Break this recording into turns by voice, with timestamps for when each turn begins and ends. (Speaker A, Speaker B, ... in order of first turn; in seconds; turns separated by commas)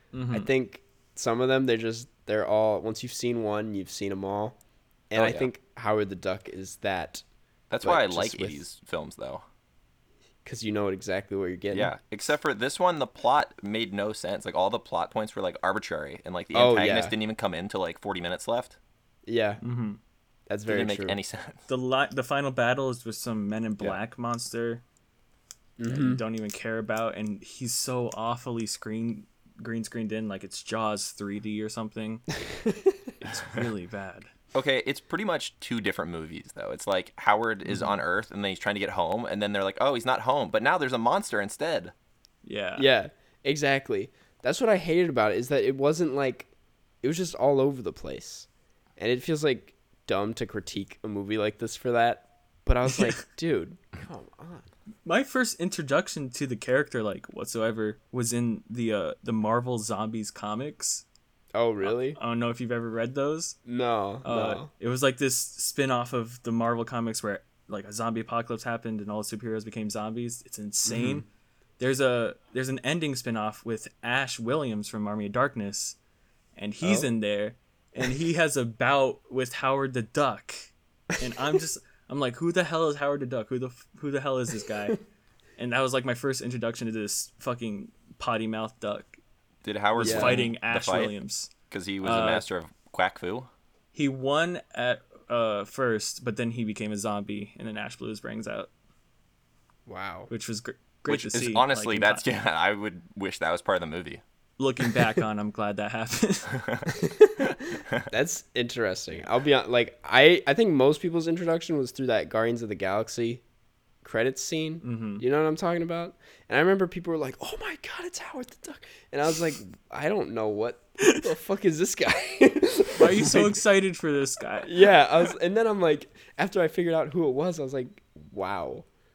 Speaker A: 0.1-0.5, Speaker B: 0.3-4.6, Speaker B: 5.1-7.2, Speaker C: 5.1-5.5, Speaker C: 7.7-9.4, Speaker B: 7.8-8.6, Speaker B: 10.4-11.9, Speaker C: 11.7-18.8, Speaker B: 16.5-17.1, Speaker B: 19.3-19.6, Speaker A: 19.6-20.0, Speaker B: 20.5-21.2, Speaker C: 20.7-21.6, Speaker A: 21.7-24.8, Speaker B: 25.8-26.2, Speaker A: 25.9-32.2, Speaker B: 32.5-33.0, Speaker A: 33.2-34.3, Speaker C: 34.5-41.9, Speaker A: 42.4-42.9, Speaker B: 42.8-46.5, Speaker B: 47.0-54.7, Speaker A: 52.9-53.2, Speaker A: 55.1-61.0, Speaker B: 61.5-62.2, Speaker A: 61.8-63.6, Speaker B: 63.7-64.7, Speaker A: 64.2-71.3, Speaker B: 70.8-71.2, Speaker A: 71.8-76.0, Speaker A: 76.6-85.0, Speaker B: 76.8-77.1, Speaker A: 85.6-89.2, Speaker C: 89.6-91.1, Speaker A: 90.0-91.5, Speaker B: 90.0-90.4, Speaker C: 91.7-93.5, Speaker A: 92.0-92.5, Speaker A: 93.9-98.7, Speaker B: 99.9-100.3, Speaker A: 100.3-102.2, Speaker C: 101.1-104.2, Speaker A: 104.6-106.5, Speaker B: 106.9-113.4, Speaker B: 114.0-123.6, Speaker A: 114.8-115.2, Speaker A: 123.0-125.0, Speaker B: 124.6-128.9